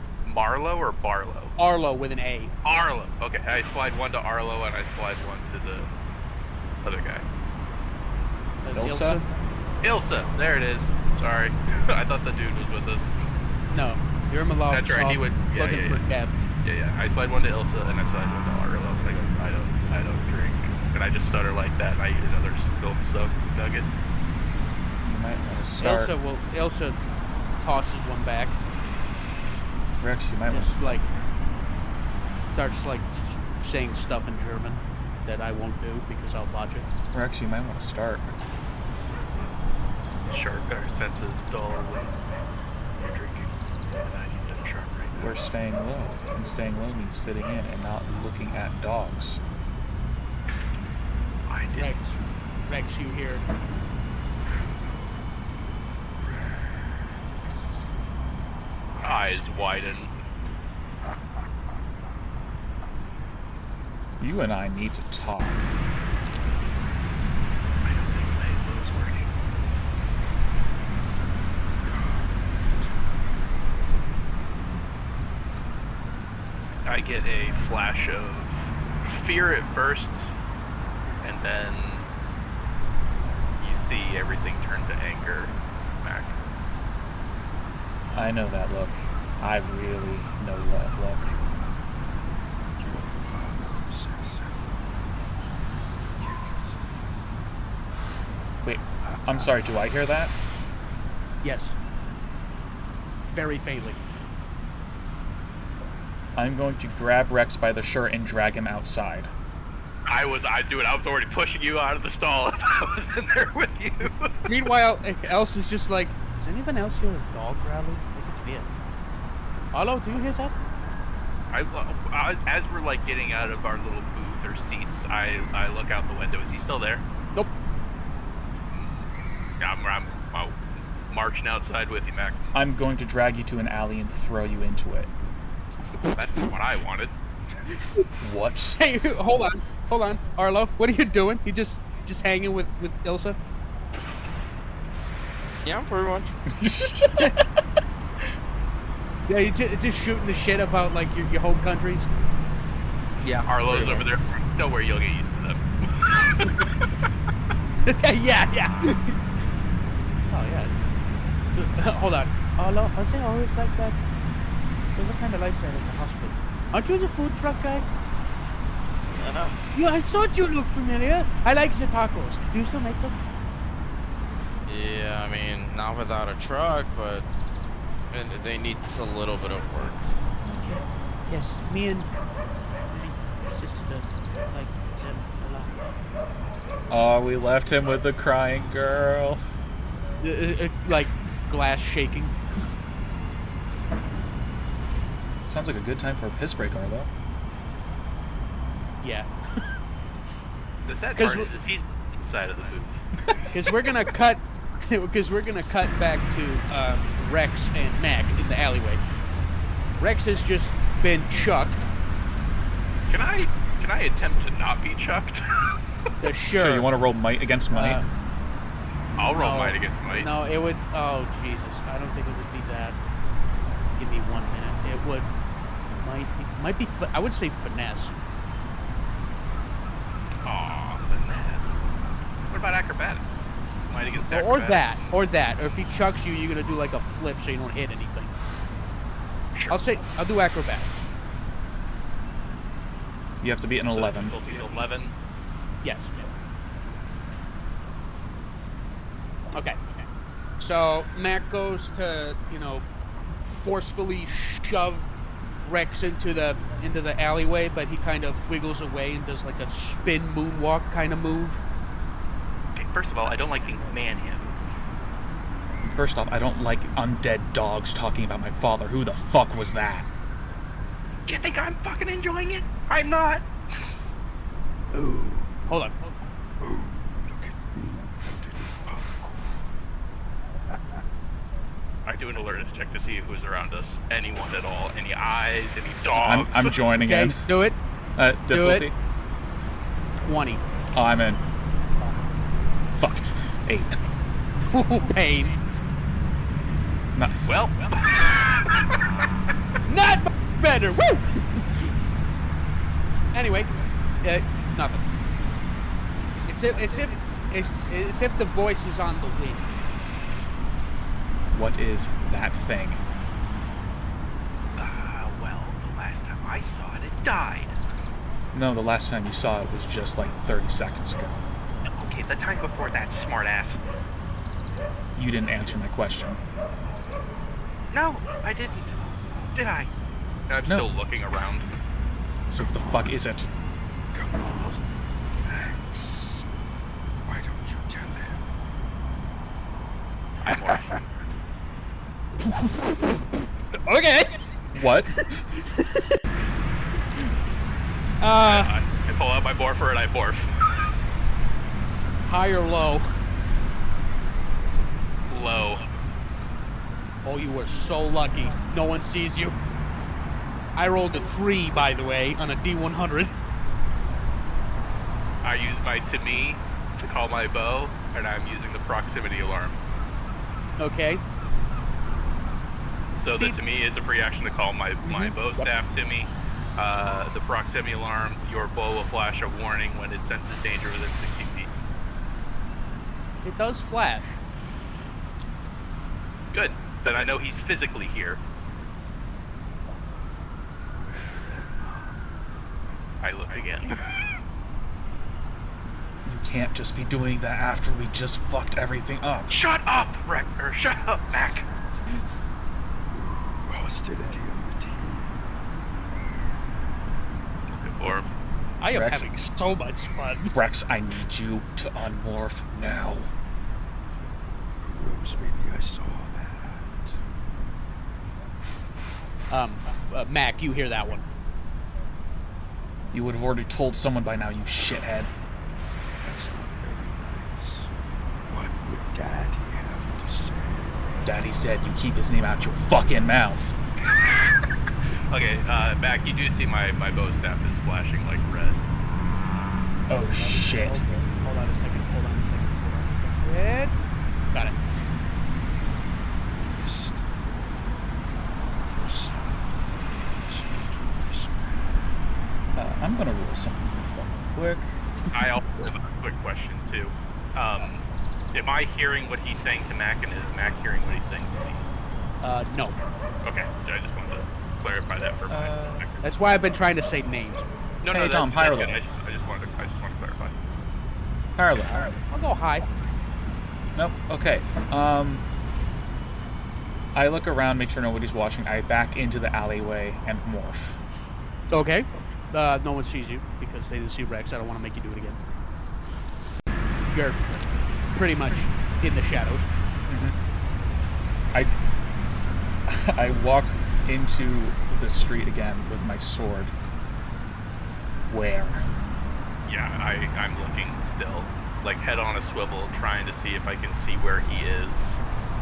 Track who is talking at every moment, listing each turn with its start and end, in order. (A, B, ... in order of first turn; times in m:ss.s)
0:00.2-0:01.5 A
0:01.6-0:02.5 B
0:02.6-0:05.9 A
0:06.8-0:07.2 A
0:08.6-0:09.2 B
0:08.7-0:09.2 C
0:09.8-0:13.1 A
0:13.7-0:16.4 B
0:14.7-0:16.0 A
0:16.6-0:23.9 A
0:25.0-0:26.2 C
0:25.8-0:27.0 B
0:27.6-0:28.6 B
0:30.0-0:31.1 C
0:30.5-0:31.1 B
0:32.5-0:36.9 B
0:37.1-0:38.4 C
0:40.3-0:42.2 A
0:43.0-0:45.3 A
0:45.1-0:49.4 C
0:51.5-0:52.0 A
0:51.8-0:52.1 B
0:52.7-0:53.4 B
0:54.5-0:55.6 D
0:56.2-0:57.8 D
0:58.9-0:59.7 D
0:59.0-1:00.1 A
1:01.0-1:01.8 D
1:04.2-1:05.7 C
1:07.8-1:09.3 A
1:11.8-1:14.0 D
1:16.8-1:20.3 A
1:21.2-1:22.1 A
1:23.6-1:26.4 A
1:28.1-1:31.4 C
1:32.8-1:35.2 D
1:35.9-1:37.1 D
1:38.6-1:40.3 C
1:39.0-1:39.5 D
1:41.4-1:41.8 B
1:43.3-1:44.0 B
1:46.3-1:49.3 C
1:50.1-1:54.4 A
1:54.4-1:58.7 B
1:59.7-2:00.5 B
2:01.5-2:07.0 A
2:08.7-2:09.0 A
2:09.6-2:10.6 A
2:11.1-2:12.4 A
2:12.5-2:15.1 C
2:16.0-2:17.1 A
2:18.2-2:18.8 C
2:18.8-2:23.4 B
2:25.6-2:26.3 E
2:26.5-2:27.4 C
2:29.3-2:32.1 B
2:33.2-2:34.0 E
2:33.4-2:36.7 A
2:37.8-2:39.2 B
2:40.3-2:40.8 B
2:41.5-2:44.0 B
2:44.9-2:47.8 B
2:49.1-2:49.6 E
2:49.7-2:53.1 B
2:54.6-2:57.2 E
2:58.1-3:00.1 E
3:00.4-3:02.1 B
3:02.9-3:05.9 B
3:06.9-3:09.4 C
3:10.2-3:12.3 B
3:15.4-3:17.1 C
3:19.0-3:19.6 B
3:20.8-3:23.0 A
3:21.2-3:21.5 B
3:23.5-3:29.0 B
3:30.0-3:31.8 B
3:33.1-3:35.8 A
3:36.2-3:36.9 B
3:36.5-3:38.0 C
3:37.7-3:38.0 B
3:39.1-3:43.0 B
3:39.2-3:40.3 A
3:44.0-3:48.1 B
3:50.4-3:51.8 A
3:52.5-3:55.0 A
3:54.1-3:58.3 B
3:59.7-4:01.0 B
4:03.4-4:04.4 C
4:03.9-4:05.1 A
4:05.8-4:06.3 B
4:09.5-4:10.0 B
4:10.6-4:15.1 B
4:15.6-4:21.6 B
4:22.8-4:24.6 A
4:25.8-4:30.1 C
4:31.2-4:33.4 A
4:34.9-4:35.5 D
4:35.7-4:36.2 B
4:36.6-4:39.8 D
4:40.7-4:41.0 D
4:42.0-4:46.8 A
4:46.1-4:47.4 C
4:47.0-4:47.8 B
4:48.2-4:48.9 C
4:48.5-4:48.9 B
4:50.2-4:50.6 B
4:50.9-4:51.4 C
4:52.9-4:54.0 C
4:54.7-4:55.6 B
4:57.1-4:57.4 C
4:57.4-4:59.0 A
4:59.8-5:01.9 B
5:03.3-5:05.0 B
5:06.5-5:09.7 B
5:11.5-5:13.0 C
5:14.8-5:17.8 A
5:18.5-5:21.4 C
5:21.8-5:23.8 A
5:25.1-5:26.4 C
5:27.9-5:29.0 A
5:29.5-5:29.9 A
5:30.5-5:31.7 A
5:32.5-5:33.5 C
5:32.6-5:33.2 D
5:34.1-5:34.8 D
5:34.4-5:34.8 A
5:35.4-5:36.4 D
5:37.2-5:38.5 D
5:40.4-5:41.0 A
5:40.4-5:41.0 D
5:42.4-5:43.1 B
5:43.7-5:44.4 B
5:44.7-5:45.2 C
5:45.0-5:46.2 B
5:48.2-5:48.7 B
5:48.4-5:50.9 A
5:52.2-5:53.0 B
5:55.3-5:55.9 A
5:57.2-5:59.5 B
6:00.8-6:03.3 B
6:05.4-6:09.8 A
6:10.8-6:11.2 B
6:13.2-6:21.7 A
6:15.0-6:15.7 B
6:23.4-6:24.4 B
6:26.5-6:28.4 A
6:30.9-6:32.2 D
6:33.2-6:34.0 A
6:36.2-6:39.6 C
6:39.5-6:41.7 A
6:43.1-6:45.4 D
6:47.7-6:48.3 A
6:48.8-6:50.6 B
6:48.9-6:49.3 C
6:50.5-6:53.3 C
6:54.8-6:57.2 D
6:59.5-7:01.2 B
7:03.1-7:05.3 C
7:06.2-7:07.9 D
7:08.5-7:11.1 D
7:11.2-7:13.8 C
7:14.0-7:14.6 A
7:15.3-7:18.8 A
7:20.1-7:21.2 C
7:20.3-7:23.9 B
7:24.5-7:24.8 B
7:26.4-7:28.2 D
7:28.9-7:29.8 D
7:30.4-7:32.2 D
7:32.8-7:34.9 C
7:35.3-7:41.8 A
7:42.4-7:43.0 B
7:43.4-7:46.3 A
7:45.5-7:46.0 C
7:46.2-7:47.7 B
7:48.0-7:50.5 A
7:48.1-7:49.0 C
7:51.6-7:52.2 C
7:51.8-7:52.9 B
7:53.9-7:55.4 C
7:57.1-8:01.0 C
8:01.7-8:05.4 B
8:07.1-8:09.7 B
8:10.1-8:10.4 C
8:12.8-8:16.7 C
8:18.3-8:18.8 C
8:19.6-8:25.2 A